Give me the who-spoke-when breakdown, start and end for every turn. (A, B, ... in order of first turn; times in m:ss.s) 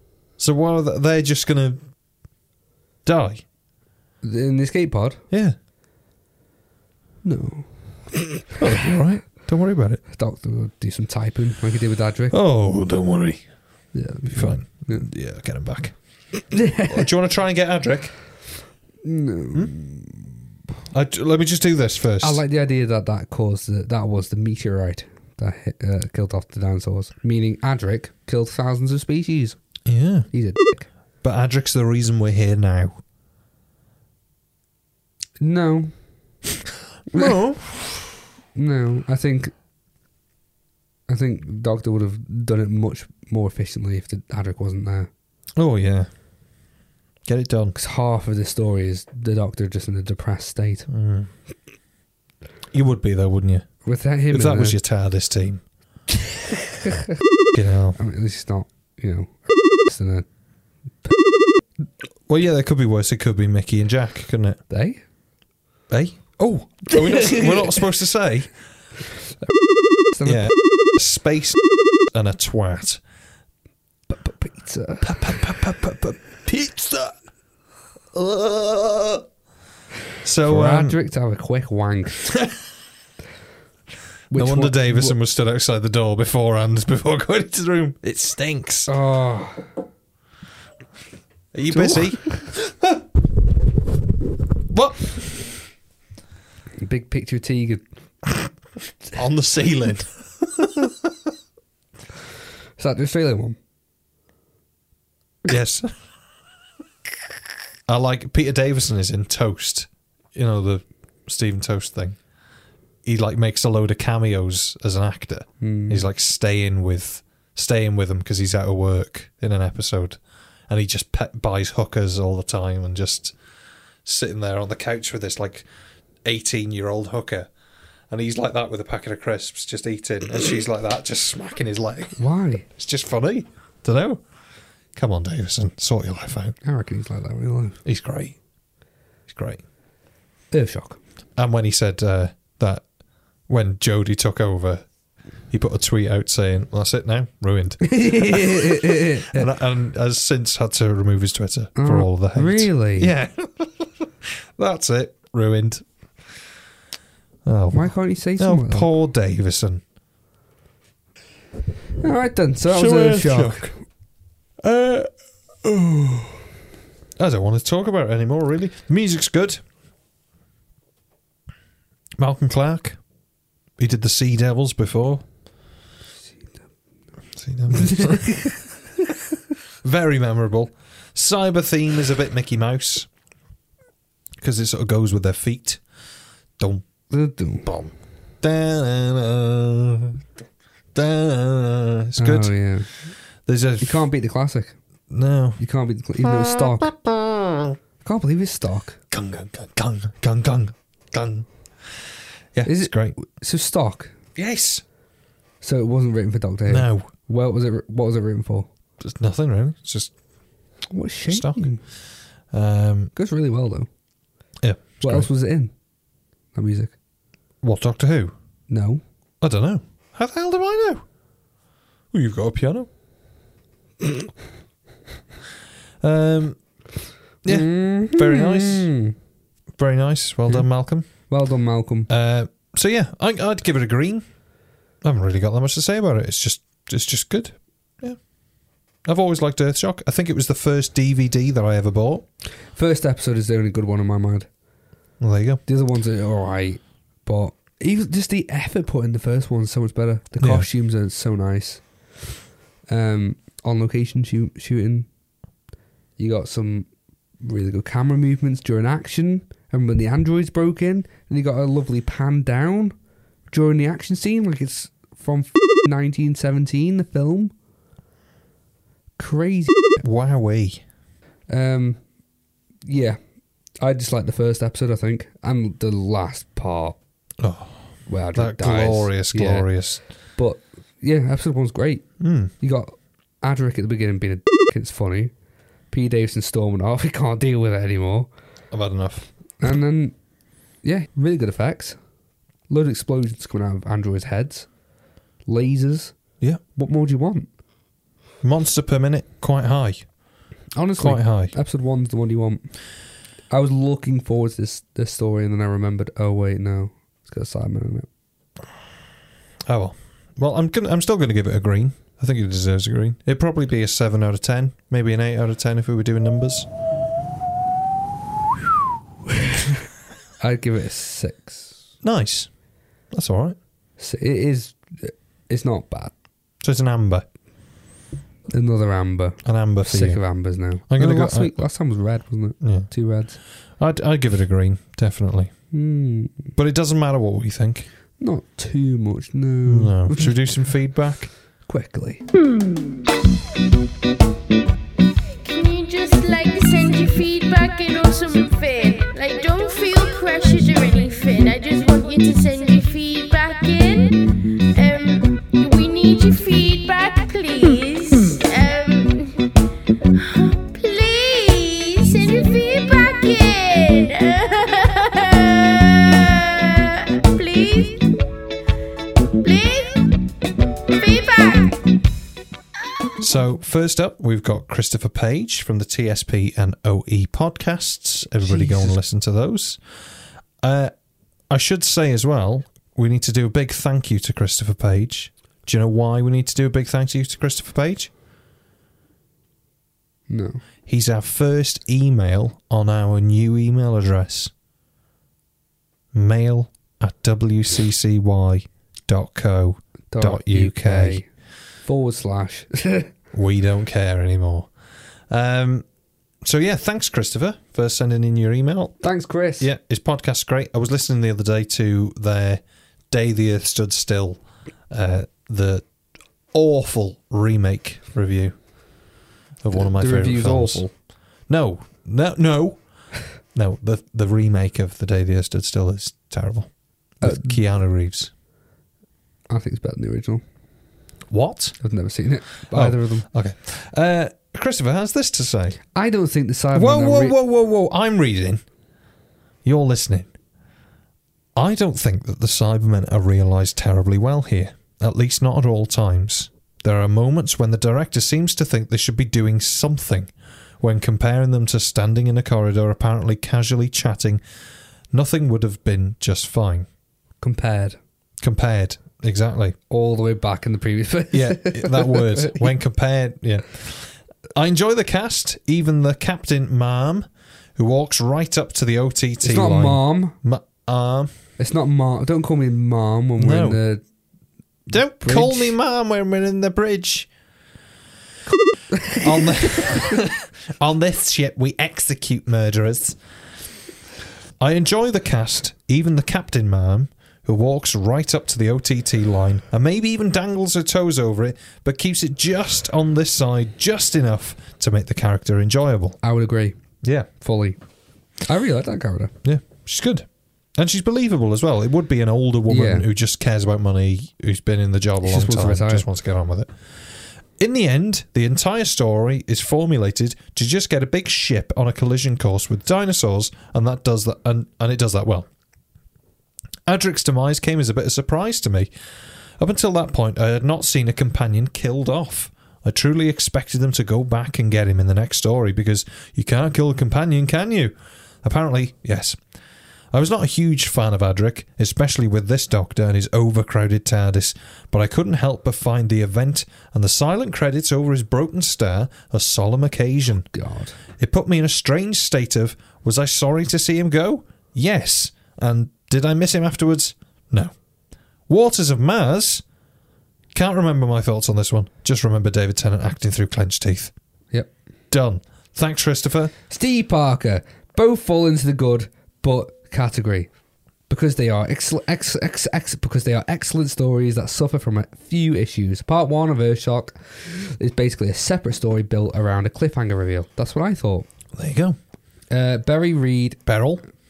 0:00.4-0:01.8 A
0:03.0-0:03.4 A
0:04.2-0:05.2 B
0:07.2-0:08.1 B
0:08.6-0:10.0 A
0:10.1-0:12.4 B
0:12.3-0:13.4 A
0:13.9-0:15.0 B
0:14.3-0:15.9 A
0:16.5-0:17.1 B
0:16.8-0:18.1 A
0:19.0-0:20.3 B
0:20.9-0:22.4 A
0:22.2-0:29.6 B
0:29.8-0:30.3 A
0:30.3-0:30.9 B
0:31.2-0:33.0 A
0:35.4-0:35.9 B
0:37.1-0:38.1 A
0:38.5-0:39.5 B
0:41.1-0:45.1 B
0:45.6-0:46.1 A
0:47.2-0:47.8 A
0:47.8-0:50.9 B
0:50.9-0:51.3 A
0:52.7-0:53.7 A
0:53.8-0:54.8 B
0:54.3-0:55.6 A
0:57.5-0:58.0 A
0:58.0-1:00.3 B
1:02.3-1:04.6 A
1:04.7-1:05.0 B
1:05.9-1:08.5 A
1:07.0-1:07.8 B
1:10.1-1:10.5 B
1:10.2-1:11.6 A
1:12.1-1:13.0 A
1:14.1-1:15.4 B
1:15.0-1:17.1 A
1:18.1-1:19.2 A
1:20.2-1:21.0 A
1:20.4-1:22.3 B
1:24.3-1:25.1 B
1:24.3-1:28.9 A
1:28.9-1:29.7 B
1:31.5-1:33.0 A
1:31.7-1:32.4 B
1:34.7-1:35.5 A
1:36.8-1:37.8 B
1:39.1-1:40.9 A
1:42.8-1:43.6 B
1:45.4-1:45.9 A
1:47.9-1:52.2 A
1:53.0-2:03.3 A
1:55.6-1:56.0 B
2:04.0-2:05.6 A
2:06.2-2:07.5 A
2:08.1-2:12.2 A
2:12.2-2:12.6 B
2:12.7-2:14.2 A
2:14.9-2:16.6 A
2:16.6-2:17.8 B
2:17.8-2:18.4 A
2:19.3-2:19.6 A
2:20.5-2:21.0 B
2:21.4-2:22.8 A
2:23.5-2:24.8 A
2:25.5-2:33.9 A
2:27.9-2:29.5 B
2:31.8-2:33.1 B
2:34.6-2:35.8 A
2:37.4-2:39.8 A
2:37.7-2:38.9 B
2:42.0-2:43.8 B
2:42.7-2:43.7 A
2:44.6-2:45.1 A
2:45.6-2:46.4 A
2:47.2-2:49.6 A
2:52.2-2:53.0 A
2:53.8-2:55.2 A
2:57.4-2:58.5 A
2:57.7-2:58.6 B
2:59.8-3:03.1 A
3:04.4-3:05.8 A
3:06.6-3:06.8 A
3:07.1-3:07.7 B
3:07.6-3:10.2 A
3:10.9-3:12.6 A
3:12.2-3:12.9 B
3:13.4-3:14.0 A
3:13.8-3:14.8 B
3:15.1-3:15.6 A
3:15.6-3:16.9 B
3:16.2-3:17.7 A
3:18.0-3:19.0 B
3:19.1-3:21.5 A
3:22.5-3:23.2 A
3:22.6-3:24.1 B
3:24.4-3:24.8 A
3:25.6-3:28.7 B
3:26.7-3:27.1 A
3:29.0-3:30.1 A
3:30.9-3:31.8 B
3:31.3-3:31.7 A
3:32.5-3:33.1 A
3:33.2-3:33.9 B
3:34.6-3:35.3 A
3:35.0-3:35.7 B
3:36.5-3:36.9 B
3:37.6-3:38.3 A
3:38.7-3:39.0 B
3:39.4-3:41.0 A
3:42.1-3:42.9 A
3:46.0-3:46.6 A
3:47.4-3:48.9 A
3:47.5-3:49.1 B
3:49.8-3:51.1 A
3:50.5-3:52.1 B
3:52.1-3:54.2 A
3:55.0-3:58.2 A
3:59.0-4:02.2 A
4:02.7-4:04.5 B
4:05.2-4:05.6 A
4:05.6-4:11.9 B
4:10.4-4:10.7 A
4:12.9-4:15.1 B
4:16.2-4:16.9 B
4:17.4-4:22.9 B
4:23.5-4:27.5 B
4:29.2-4:30.0 B
4:30.0-4:30.8 A
4:31.5-4:32.0 B
4:32.8-4:33.2 B
4:33.8-4:37.0 B
4:37.4-4:40.0 A
4:38.1-4:39.7 B
4:40.4-4:45.3 B
4:42.2-4:42.5 A
4:45.9-4:48.3 B
4:48.7-4:49.3 A
4:49.6-4:50.2 B
4:50.8-4:52.0 B
4:52.7-4:54.7 B
4:55.4-4:56.1 B
4:56.7-4:57.5 B
4:58.4-5:00.1 A
5:00.7-5:02.7 B
5:01.0-5:01.5 A
5:03.5-5:08.1 B
5:09.7-5:16.7 A
5:20.4-5:21.8 B
5:22.0-5:22.5 A
5:23.1-5:23.6 A
5:24.0-5:26.1 B
5:26.6-5:27.2 A
5:28.5-5:33.4 B
5:29.4-5:30.2 A
5:30.9-5:31.6 A
5:32.6-5:32.9 A
5:33.8-5:35.5 A
5:35.7-5:36.5 B
5:36.6-5:37.9 A
5:38.2-5:40.4 B
5:39.6-5:41.3 A
5:41.6-5:42.2 B
5:45.4-5:59.6 C
6:00.1-6:08.2 C
6:09.4-6:10.2 C
6:10.9-6:11.9 C
6:13.2-6:19.8 A
6:18.4-6:19.0 B
6:20.6-6:20.9 A
6:21.5-6:28.1 A
6:30.3-6:30.6 B
6:30.8-6:34.5 A
6:36.1-6:41.2 A
6:40.1-6:41.2 B
6:41.8-6:43.1 B
6:43.3-6:44.7 A
6:45.3-6:45.8 A
6:46.4-6:49.0 A
6:49.0-6:49.7 B
6:49.6-6:55.8 A
6:56.5-6:58.6 A
6:59.6-7:00.9 A
6:59.7-7:00.9 B
7:01.5-7:08.3 A
7:07.2-7:07.6 B
7:09.5-7:10.4 B
7:11.3-7:11.8 A
7:11.8-7:13.3 B
7:12.7-7:15.8 A
7:15.9-7:17.4 B
7:16.7-7:18.6 A
7:19.6-7:20.3 A
7:21.5-7:34.4 A
7:35.1-7:36.9 A
7:37.4-7:38.0 B
7:38.4-7:39.8 A
7:39.9-7:42.7 B
7:41.3-7:51.3 A
7:49.4-7:50.4 B
7:51.6-7:54.0 B
7:53.4-7:53.8 A
7:54.9-7:57.3 A
7:54.9-7:55.8 B
7:58.9-7:59.6 B
7:59.1-8:03.2 A
8:04.6-8:16.2 A
8:16.2-8:16.8 B
8:17.0-8:17.3 A
8:17.4-8:17.8 B
8:18.4-8:19.3 B
8:19.4-8:26.7 A
8:22.7-8:23.1 B
8:25.2-8:26.1 B
8:27.6-8:35.5 A
8:36.8-8:38.9 A
8:39.6-8:49.4 A
8:50.1-9:00.5 A
9:00.5-9:00.9 B
9:01.2-9:07.7 A
9:08.5-9:09.6 A
9:10.5-9:14.1 A
9:15.1-9:16.5 A
9:16.7-9:20.5 B
9:21.1-9:31.3 B
9:31.5-9:32.0 A
9:32.5-9:33.6 B
9:33.6-9:34.0 A